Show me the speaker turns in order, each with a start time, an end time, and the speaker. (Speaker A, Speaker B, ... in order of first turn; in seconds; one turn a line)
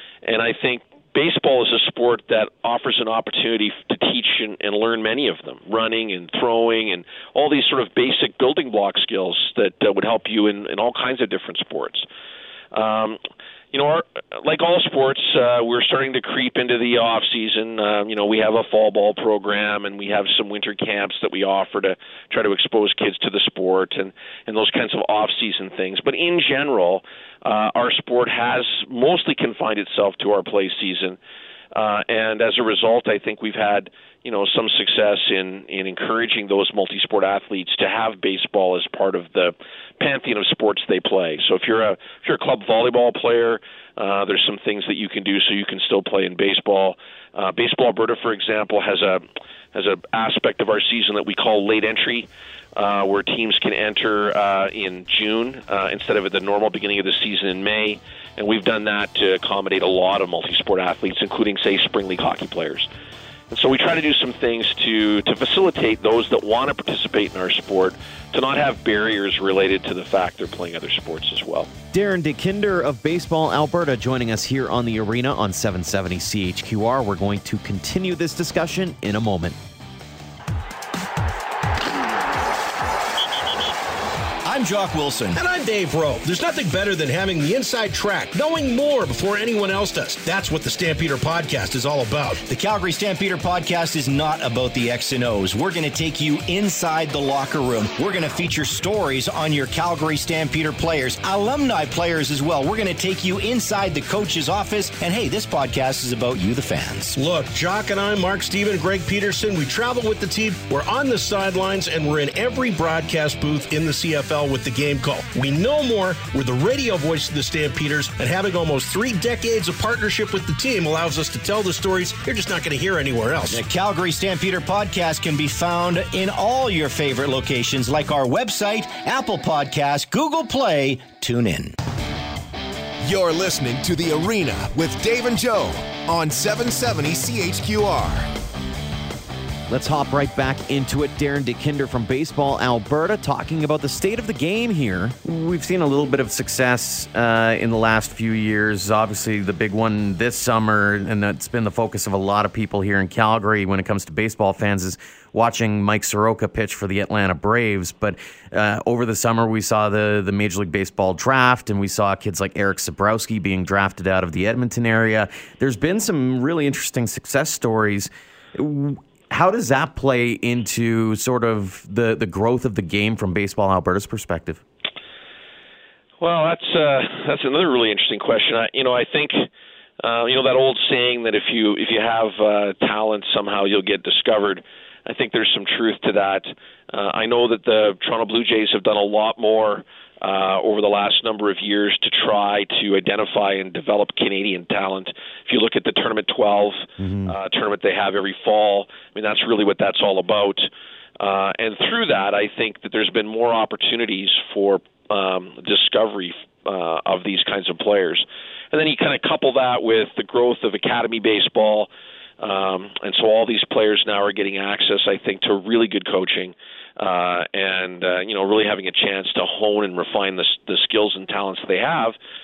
Speaker A: 0.2-12.1
Speaker A: 12.7-13.2
Speaker A: 13.7-31.2
Speaker A: 31.7-62.9
Speaker A: 63.5-71.7
Speaker B: 71.9-79.6
Speaker C: 84.5-85.4
Speaker D: 85.3-92.4
Speaker C: 92.4-107.2
Speaker D: 107.2-123.6
Speaker C: 123.5-131.8
Speaker E: 133.0-138.3
Speaker B: 139.7-174.6
Speaker A: 176.2-179.5
Speaker A: 180.0-211.9
Speaker B: 197.0-197.3
Speaker A: 212.4-222.2